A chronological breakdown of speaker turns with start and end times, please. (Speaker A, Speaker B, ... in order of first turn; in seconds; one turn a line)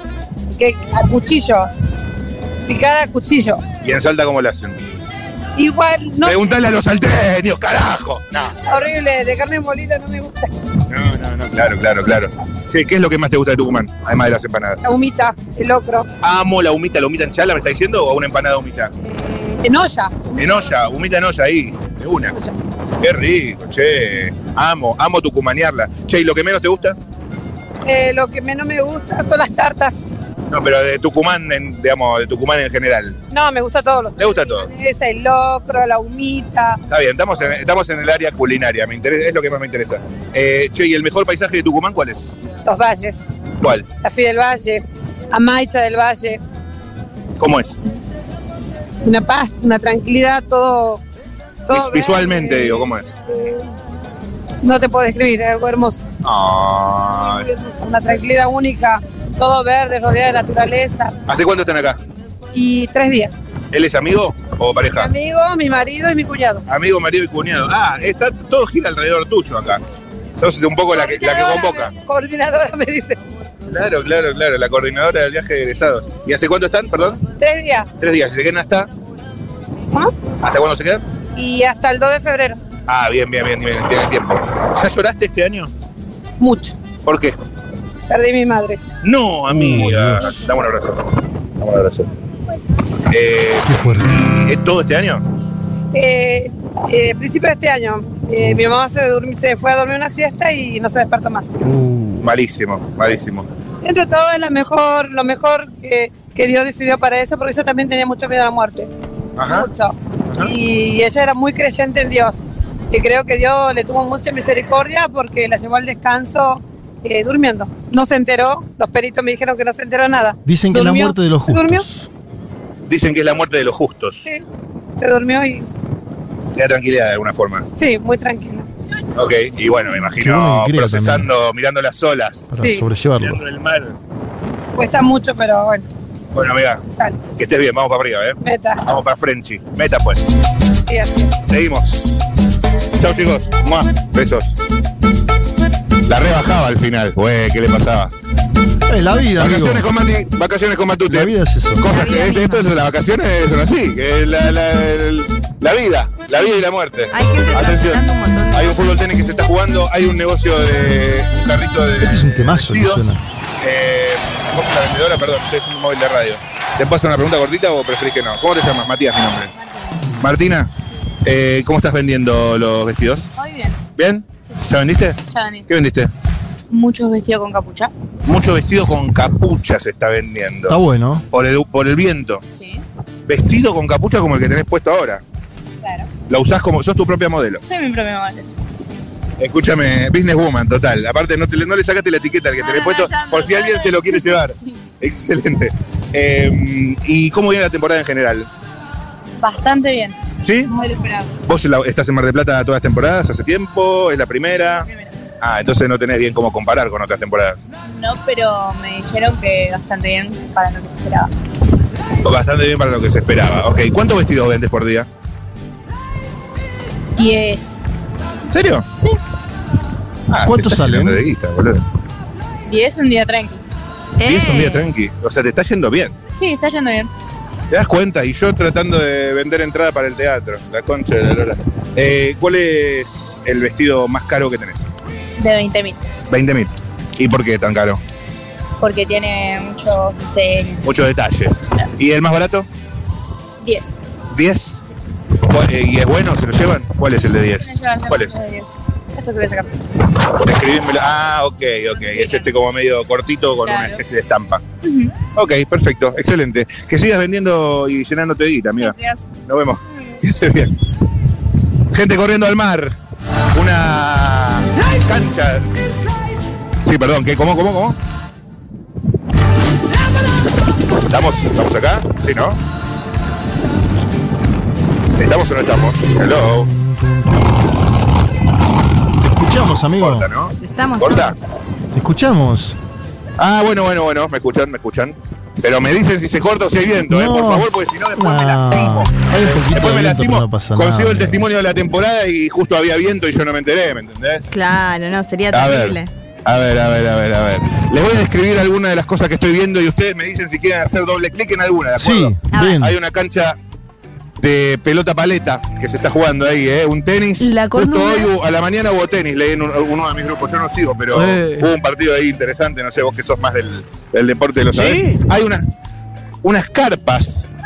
Speaker A: 0.5-1.7
Speaker A: 2.7-3.6
Speaker B: 3.8-4.8
Speaker A: 5.5-6.5
Speaker B: 6.2-8.7
Speaker A: 8.7-10.5
Speaker B: 10.9-14.8
Speaker A: 14.8-16.1
Speaker B: 16.2-18.9
Speaker A: 19.1-20.7
Speaker B: 20.4-22.3
Speaker A: 22.3-22.5
Speaker B: 23.0-27.0
Speaker A: 27.8-30.1
Speaker B: 30.5-33.2
Speaker A: 33.3-36.8
Speaker B: 34.2-34.7
Speaker B: 36.9-42.3
Speaker A: 42.6-46.4
Speaker B: 43.6-43.9
Speaker B: 47.4-47.8
Speaker A: 49.0-51.0
Speaker A: 51.7-53.6
Speaker B: 51.7-53.1
Speaker A: 54.6-56.1
Speaker B: 56.2-57.5
Speaker A: 57.2-61.1
Speaker B: 61.3-62.0
Speaker A: 62.5-63.3
Speaker B: 63.7-65.1
Speaker A: 64.9-66.6
Speaker B: 66.7-69.8
Speaker B: 70.4-71.9
Speaker A: 70.9-73.2
Speaker B: 73.7-77.2
Speaker A: 77.4-77.9
Speaker B: 78.0-78.9
Speaker B: 80.4-81.0
Speaker A: 81.3-82.6
Speaker B: 82.9-85.7
Speaker A: 86.4-86.8
Speaker B: 87.0-87.4
Speaker A: 88.1-88.8
Speaker B: 89.0-91.1
Speaker C: 89.7-90.2
Speaker B: 91.6-92.1
Speaker B: 93.1-95.2
Speaker C: 93.7-94.2
Speaker A: 95.9-101.5
Speaker C: 101.6-102.3
Speaker B: 102.2-103.5
Speaker A: 103.8-108.9
Speaker B: 109.4-109.7
Speaker A: 109.4-121.8
Speaker C: 120.4-122.1
Speaker B: 122.9-124.3
Speaker A: 125.0-125.7
Speaker B: 126.5-127.7
Speaker A: 127.8-128.7
Speaker B: 129.1-132.6
Speaker C: 130.1-131.3
Speaker C: 132.5-133.4
Speaker A: 132.6-132.9
Speaker B: 133.2-133.9
Speaker A: 134.7-135.8
Speaker B: 136.3-136.8
Speaker A: 136.9-137.2
Speaker B: 137.3-140.2
Speaker A: 138.4-138.8
Speaker A: 140.8-141.3
Speaker B: 141.5-142.2
Speaker B: 143.0-144.6
Speaker B: 146.1-148.1
Speaker C: 148.9-149.9
Speaker B: 149.4-169.5
Speaker C: 151.1-151.9
Speaker D: 151.9-152.7
Speaker D: 157.1-158.9
Speaker C: 162.0-163.2
Speaker B: 170.2-170.7
Speaker B: 171.2-173.3
Speaker E: 173.3-173.8
Speaker B: 173.9-176.1
Speaker E: 175.3-175.7
Speaker E: 176.7-177.9
Speaker B: 178.2-180.8
Speaker C: 180.7-181.2
Speaker B: 181.3-182.4
Speaker E: 182.5-182.8
Speaker B: 183.3-185.2
Speaker E: 185.8-186.1
Speaker B: 186.3-187.6
Speaker E: 187.7-188.5
Speaker B: 189.4-198.5
Speaker E: 192.6-194.8
Speaker E: 199.4-201.4
Speaker B: 200.4-200.7
Speaker B: 201.4-204.9
Speaker E: 204.6-205.1
Speaker B: 205.4-207.6
Speaker E: 207.8-211.3
Speaker B: 212.2-215.1
Speaker E: 217.2-217.9
Speaker B: 218.5-218.9
Speaker B: 220.3-221.8
Speaker C: 220.4-221.2
Speaker E: 222.7-223.6
Speaker D: 224.2-224.9
Speaker B: 224.2-226.1
Speaker E: 226.3-227.1
Speaker B: 227.7-234.9
Speaker E: 235.4-236.1
Speaker B: 236.3-238.0
Speaker E: 238.8-240.9
Speaker B: 240.8-242.7
Speaker E: 243.6-244.0
Speaker B: 244.3-244.8
Speaker B: 245.4-248.3
Speaker E: 247.6-249.8
Speaker B: 250.3-254.6
Speaker E: 252.0-252.5
Speaker E: 253.6-254.0
Speaker E: 254.8-255.1
Speaker B: 255.3-260.7
Speaker E: 258.8-259.3
Speaker B: 261.9-262.9
Speaker B: 263.5-265.7
Speaker B: 266.8-268.0
Speaker B: 271.0-272.6
Speaker B: 275.2-276.7
Speaker C: 276.6-277.4
Speaker C: 279.2-280.3
Speaker B: 280.0-281.4
Speaker D: 280.6-281.4
Speaker C: 281.9-282.8
Speaker B: 283.4-294.5
Speaker C: 287.0-291.5
Speaker D: 294.5-296.1
Speaker B: 295.5-303.6
Speaker C: 302.0-303.0
Speaker D: 302.5-302.8
Speaker B: 304.4-315.6
Speaker D: 307.4-308.3
Speaker C: 311.1-311.7
Speaker C: 314.7-315.2
Speaker B: 316.4-317.5